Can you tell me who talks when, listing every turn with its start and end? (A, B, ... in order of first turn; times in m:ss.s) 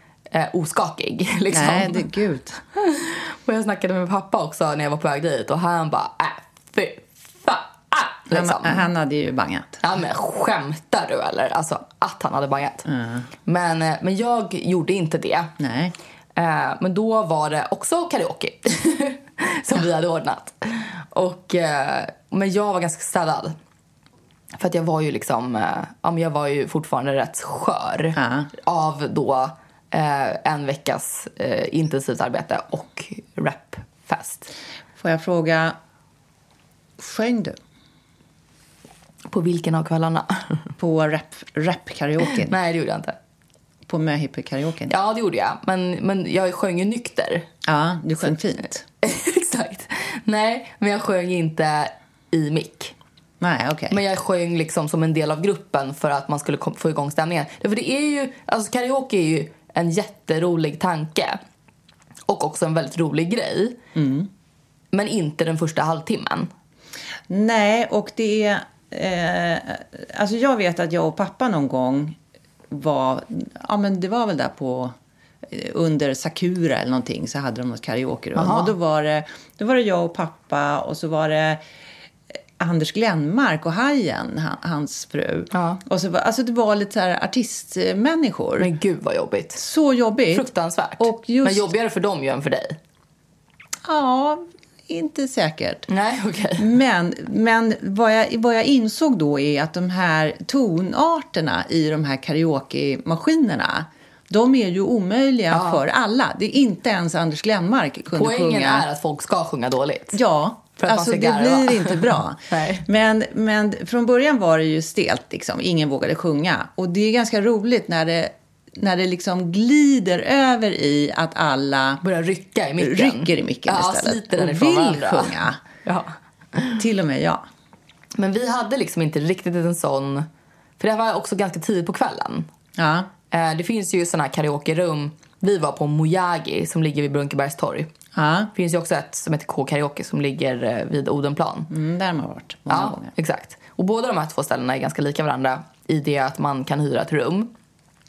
0:00.3-0:02.0 A
0:01.5-0:02.6 B
0:02.7-0:08.8 A
0:08.3-0:09.8 B
0:09.8-0:12.8 A
0:12.8-0:13.3 B
0:13.4-0:15.5 A
0:15.6-0:15.9 B
0:16.4-0:23.6 A
0:24.6-0:34.5 A
0:28.2-0:28.5 B
0:35.0-0:35.8 B
0:37.0-0:37.6 B
0:39.3-0:40.7 A
0:40.8-0:42.5 B
0:42.3-0:43.2 A
0:43.9-0:44.9 B
0:44.9-0:47.5 A
0:47.6-0:48.8 B
0:49.0-0:52.9 A
0:53.4-0:54.0 B
0:53.9-1:01.4 A
1:02.3-1:03.8 A
1:03.9-1:04.3 B
1:04.9-1:06.5 A
1:07.3-1:12.2 B
1:12.7-1:14.9 B
1:15.5-1:21.6 B
1:18.4-1:18.7 A
1:22.6-1:28.7 B
1:25.5-1:25.8 A
1:28.6-1:29.6 A
1:29.6-1:31.7 B
1:30.3-1:32.8 A
1:33.8-1:35.9 B
1:35.9-1:36.7 A
1:36.6-1:48.8 B
1:45.5-1:45.8 A
1:48.1-1:50.2 A
1:50.1-2:02.0 B
1:50.8-1:52.8 A
2:02.0-2:06.8 A
2:02.8-2:05.6 B
2:06.8-2:07.4 B
2:08.2-2:10.3 A
2:10.8-2:12.5 A
2:12.8-2:13.1 B
2:13.3-2:17.9 A
2:18.1-2:18.5 B
2:18.5-2:21.7 A
2:21.7-2:23.1 B
2:22.7-2:27.5 A